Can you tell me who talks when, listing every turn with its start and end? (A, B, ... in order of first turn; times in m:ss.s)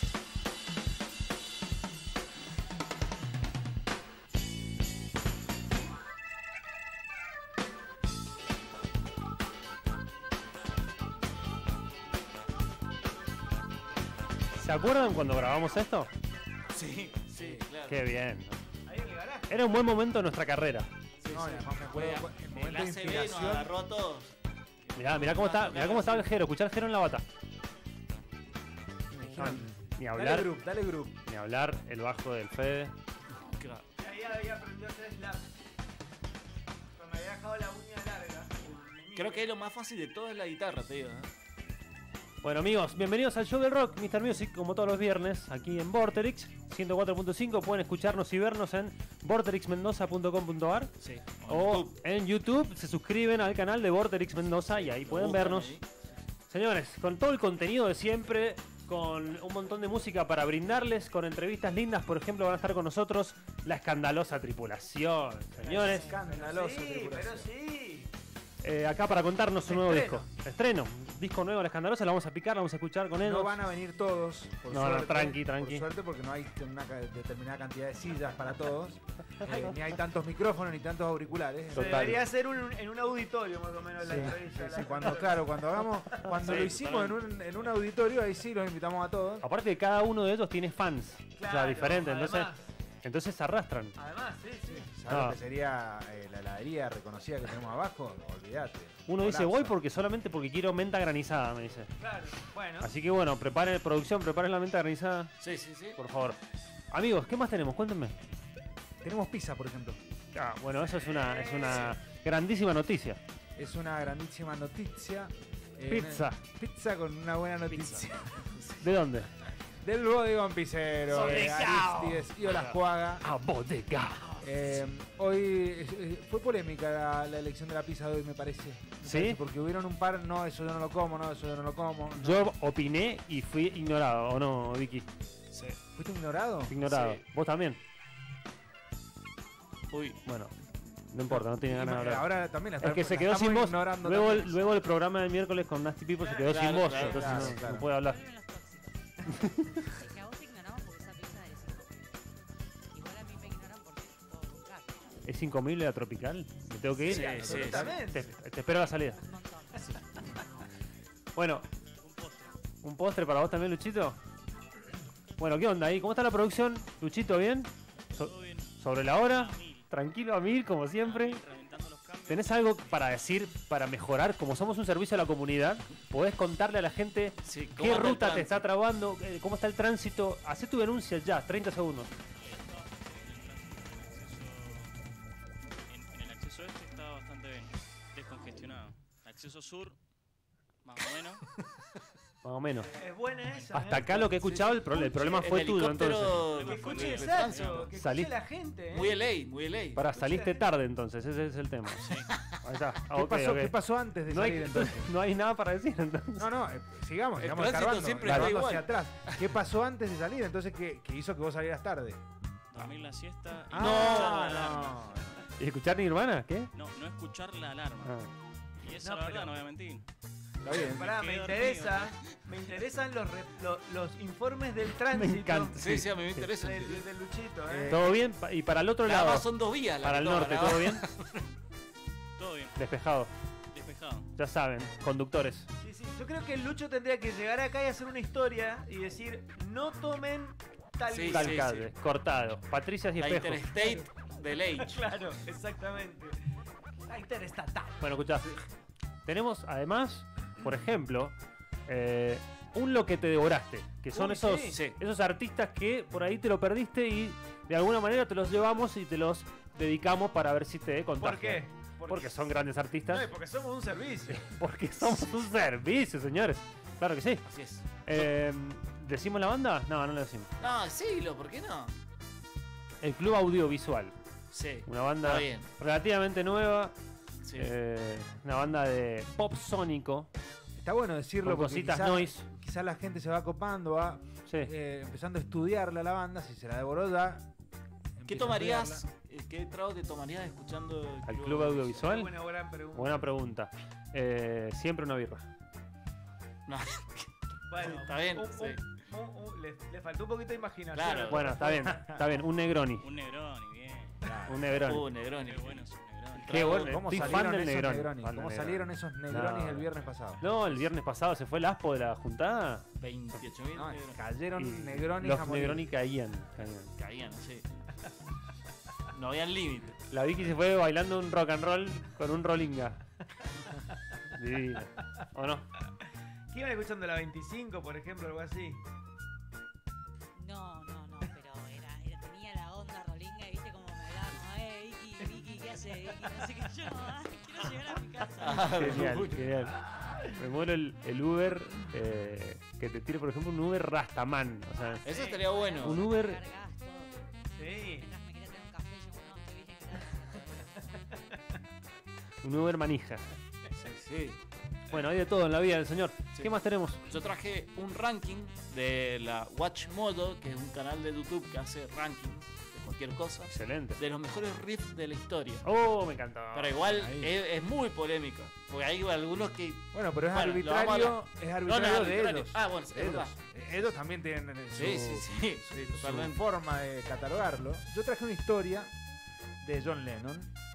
0:14.6-0:16.1 A
0:16.7-0:18.0 B
0:17.9-0:18.6 A
0:18.9-0:19.5 C
0:19.5-0:20.9 A
0:21.2-0:24.3 B
0:21.3-0:23.7 D
0:24.8-0:26.3 B
0:25.0-0:27.2 A
0:29.1-0:31.2 D
0:29.4-0:30.6 A
0:31.3-0:32.9 A
0:33.3-0:33.8 B
0:34.0-0:35.5 C
0:37.0-0:39.5 C
0:39.2-0:41.3 B
0:42.4-0:51.0 A
0:51.0-0:52.0 B
0:51.5-0:55.8 A
0:54.8-0:55.8 B
0:56.5-1:06.1 A
1:05.6-1:07.5 D
1:06.0-1:08.1 C
1:08.6-1:13.6 A
1:09.7-1:10.2 C
1:13.2-1:22.2 D
1:14.7-1:15.9 A
1:21.7-1:22.2 A
1:21.7-1:25.5 C
1:24.0-1:29.4 D
1:26.4-1:27.1 B
1:26.5-1:27.2 E
1:29.4-1:32.5 A
1:31.4-1:32.7 C
1:33.0-1:34.0 A
1:34.0-1:34.9 C
1:34.7-1:39.8 D
1:35.1-1:35.4 A
1:39.1-1:41.9 A
1:42.0-1:42.9 C
1:42.8-1:45.4 A
1:45.4-1:46.0 B
1:46.0-1:46.4 A
1:46.9-1:48.2 A
1:49.0-1:50.0 D
1:50.3-1:53.2 A
1:50.9-1:52.0 C
1:53.6-1:58.3 D
1:55.9-1:56.4 A
1:57.7-1:58.9 B
1:58.8-1:59.3 A
1:59.8-2:03.2 D
2:01.1-2:04.3 A
2:04.4-2:12.5 D
2:09.0-2:09.4 A
2:12.2-2:15.1 A
2:15.5-2:15.8 B
2:16.0-2:16.8 D
2:16.7-2:17.8 A
2:16.9-2:17.2 B
2:19.9-2:20.2 B
2:20.3-2:20.5 A
2:21.1-2:22.3 A
2:21.4-2:24.7 D
2:22.8-2:28.2 A
2:26.2-2:26.7 C
2:26.4-2:27.6 B
2:27.0-2:27.9 D
2:27.9-2:32.2 F
2:29.3-2:29.8 A
2:32.9-2:35.1 F
2:35.2-2:39.2 A
2:37.0-2:37.9 B
2:37.1-2:38.3 C
2:37.4-2:38.0 D
2:39.1-2:40.0 F
2:41.4-2:41.6 A
2:42.0-2:42.6 E
2:42.8-2:44.2 A
2:45.4-2:51.4 A
2:48.2-2:49.9 E
2:51.0-2:53.1 E
2:52.3-3:02.1 A
2:57.4-2:58.7 B
3:02.4-3:04.9 E
3:05.9-3:10.0 E
3:10.8-3:11.4 E
3:12.4-3:12.9 A
3:13.0-3:15.0 C
3:13.7-3:16.5 A
3:14.9-3:17.9 B
3:16.5-3:17.9 E
3:16.6-3:19.2 C
3:18.0-3:18.3 A
3:18.9-3:20.0 B
3:20.0-3:23.8 A
3:20.2-3:20.6 C
3:22.0-3:22.3 E
3:23.1-3:25.1 D
3:24.3-3:26.5 A
3:26.4-3:32.2 D
3:27.4-3:29.4 B
3:28.2-3:28.5 A
3:32.7-3:35.1 E
3:33.7-3:35.4 D
3:33.8-3:34.7 B
3:35.6-3:36.7 A
3:36.7-3:38.2 E
3:38.0-3:38.3 A
3:38.8-3:40.0 E
3:39.0-3:39.6 C
3:40.6-3:41.1 D
3:40.7-3:42.4 E
3:40.7-3:45.8 C
3:45.2-3:46.5 A
3:45.8-3:47.0 B
3:46.6-3:48.0 C
3:47.7-3:48.2 D
3:47.9-3:49.5 A
3:49.0-3:51.4 B
3:50.0-3:51.1 A
3:52.4-3:52.8 E
3:52.8-3:53.3 A
3:53.7-3:54.3 E
3:54.4-3:55.7 A
3:55.8-4:01.6 C
4:01.1-4:01.9 B
4:01.3-4:03.7 A
4:03.2-4:05.0 B
4:04.8-4:06.4 C
4:07.1-4:08.0 C
4:08.0-4:08.6 A
4:09.3-4:11.4 A
4:11.9-4:23.3 A
4:14.1-4:14.8 C
4:14.7-4:15.0 B
4:21.2-4:22.5 C
4:23.1-4:24.5 C
4:24.3-4:27.4 A
4:27.4-4:28.3 B
4:28.0-4:30.5 A
4:30.6-4:31.9 B
4:33.0-4:34.1 A
4:34.5-4:35.7 B
4:34.9-4:37.0 A
4:37.4-4:37.7 B
4:37.6-4:40.3 A
4:40.8-4:47.5 D
4:41.4-4:42.5 A
4:48.2-4:49.0 D
4:48.3-4:52.1 B
4:51.3-4:52.3 A
4:52.0-4:53.3 C
4:52.9-4:55.5 A
4:56.7-4:57.3 B
4:57.7-5:01.7 C
4:57.8-4:58.8 B
5:00.9-5:01.8 B
5:01.3-5:03.1 A
5:01.8-5:02.2 D
5:03.0-5:04.3 E
5:04.2-5:04.6 D
5:04.5-5:05.1 A
5:04.8-5:07.5 B
5:05.3-5:06.6 E
5:06.5-5:09.9 A
5:06.9-5:10.4 D
5:10.4-5:12.9 A
5:13.0-5:14.2 B
5:13.7-5:15.9 D
5:14.6-5:16.9 A
5:17.0-5:17.7 B
5:19.1-5:20.0 B
5:20.1-5:23.0 A
5:24.4-5:25.6 A
5:26.5-5:28.8 C
5:30.4-5:38.8 F
5:38.4-5:39.4 B
5:38.6-5:45.0 A
5:44.9-5:50.7 F
5:45.0-5:46.0 B
5:45.1-5:45.4 C
5:45.8-5:46.4 A
5:47.5-5:48.1 C
5:52.4-5:53.2 A
5:53.8-5:54.4 B
5:54.9-5:57.0 A
5:57.0-6:05.7 B
6:03.5-6:04.0 A
6:05.6-6:06.8 A
6:06.5-6:13.8 B
6:06.9-6:07.3 D
6:09.9-6:18.9 D
6:14.7-6:16.4 B
6:14.8-6:15.2 A
6:19.6-6:20.5 D